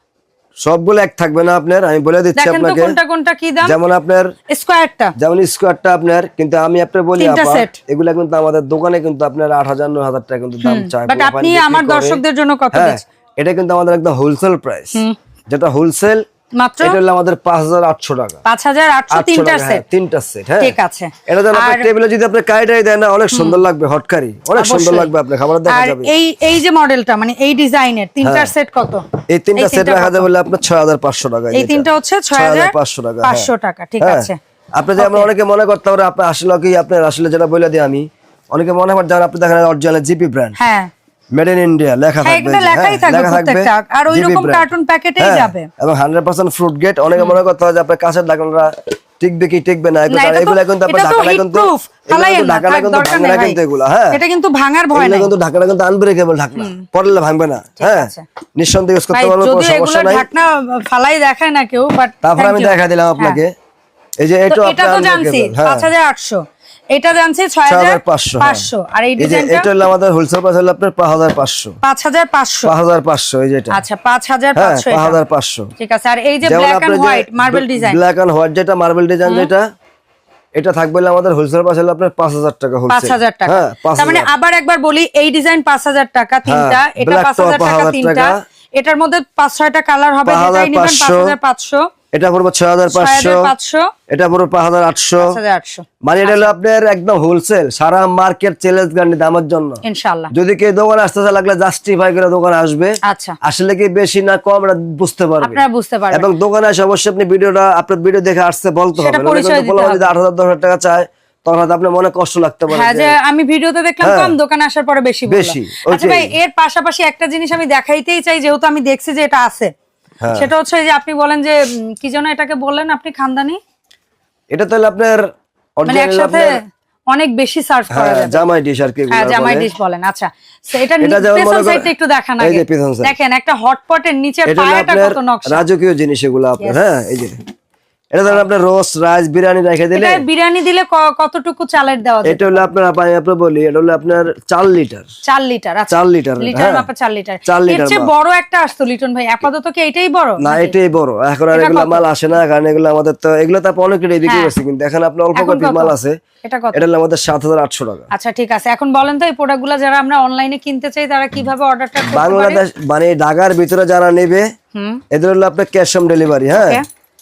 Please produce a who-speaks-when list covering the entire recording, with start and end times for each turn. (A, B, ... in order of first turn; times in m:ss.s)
0:00.6-0:03.0 A
0:02.4-0:03.8 B
0:03.6-0:04.3 A
0:04.5-0:05.1 B
0:05.2-0:16.2 A
0:07.2-0:07.8 B
0:10.6-0:13.0 B
0:16.6-0:17.0 B
0:16.8-0:18.4 A
0:18.4-0:19.8 B
0:19.1-0:26.1 A
0:20.6-0:21.9 B
0:23.3-0:23.6 B
0:24.6-0:25.1 B
0:25.7-0:30.3 B
0:28.2-0:28.5 A
0:29.3-0:40.6 A
0:31.5-0:34.4 B
0:35.0-0:35.3 B
0:40.6-0:40.9 B
0:41.3-0:54.2 A
0:42.2-0:45.7 B
0:50.1-0:53.6 B
0:54.1-0:55.3 B
0:54.9-1:00.3 A
0:56.6-0:56.8 B
0:57.8-0:58.2 B
0:59.1-1:03.4 B
1:02.2-1:03.5 A
1:04.2-1:05.9 A
1:04.5-1:09.7 B
1:07.7-1:08.7 A
1:09.2-1:11.8 A
1:11.8-1:12.7 B
1:12.7-1:13.8 A
1:13.7-1:15.2 B
1:14.6-1:15.7 A
1:15.8-1:18.0 B
1:16.4-1:19.7 A
1:19.2-1:19.5 B
1:20.6-1:24.3 A
1:22.9-1:31.9 B
1:26.4-1:28.4 A
1:30.3-1:31.3 A
1:32.1-1:33.5 A
1:32.9-1:33.9 B
1:34.1-1:35.4 A
1:35.2-1:36.5 B
1:36.0-1:53.2 A
1:39.8-1:40.3 B
1:43.0-1:43.4 B
1:45.4-1:46.3 B
1:49.0-1:50.1 B
1:52.7-1:59.7 B
1:54.0-1:54.4 A
1:55.3-1:56.3 A
2:00.2-2:00.5 A
2:00.3-2:03.6 B
2:04.5-2:05.2 A
2:05.8-2:06.6 A
2:05.9-2:08.5 B
2:07.9-2:09.7 A
2:09.1-2:15.7 B
2:11.0-2:13.1 A
2:14.5-2:17.4 A
2:18.1-2:20.2 A
2:19.9-2:22.7 B
2:22.2-2:25.1 A
2:25.3-2:30.7 B
2:25.9-2:26.9 A
2:27.5-2:28.1 A
2:30.4-2:36.2 A
2:31.5-2:32.0 B
2:34.3-2:34.5 B
2:35.4-2:35.9 B
2:36.4-2:36.8 B
2:36.7-2:38.1 A
2:38.1-2:42.6 B
2:42.1-2:44.5 A
2:44.8-2:45.0 B
2:45.1-2:46.8 A
2:46.5-2:46.8 B